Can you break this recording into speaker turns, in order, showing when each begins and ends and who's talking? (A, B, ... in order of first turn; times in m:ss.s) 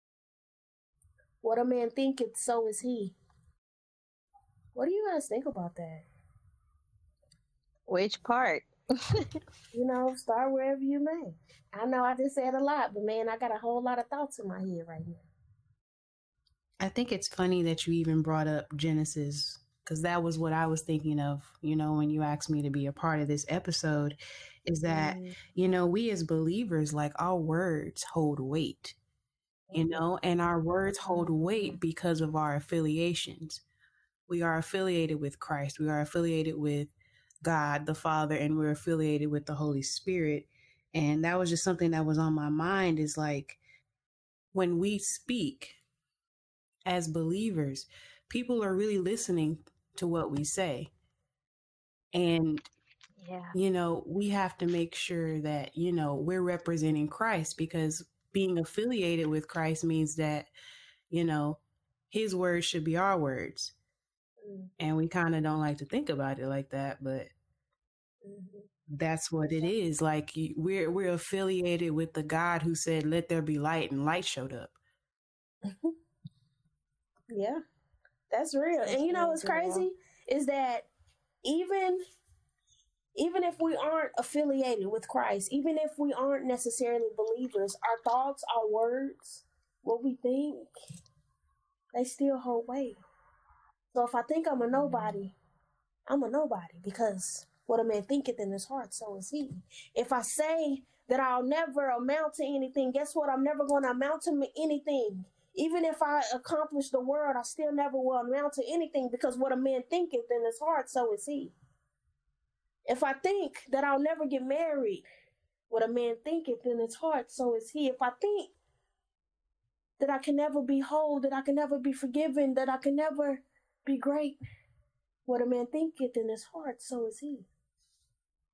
0:01.4-0:03.2 A
0:04.7-0:06.0 A
0:07.9-0:08.7 B
0:09.7-0:15.2 A
0:16.8-0:29.0 C
0:24.8-0:25.3 A
0:29.7-0:33.6 C
0:34.3-0:36.9 C
0:37.4-0:43.6 C
0:44.5-0:45.8 C
0:46.8-0:50.9 C
0:52.1-0:52.6 C
0:53.2-0:53.6 B
0:53.5-1:00.5 C
1:01.1-1:03.7 C
1:04.4-1:04.7 A
1:04.8-1:07.3 C
1:08.2-1:08.7 A
1:08.9-1:14.7 C
1:15.6-1:15.9 A
1:17.3-1:17.6 A
1:18.3-1:20.9 A
1:18.8-1:19.8 B
1:21.4-1:22.0 A
1:23.2-1:30.7 A
1:31.9-1:33.0 A
1:33.9-1:35.3 A
1:36.1-1:51.5 A
1:52.9-1:55.0 A
1:55.7-1:58.5 A
2:00.0-2:04.4 A
2:05.2-2:07.5 A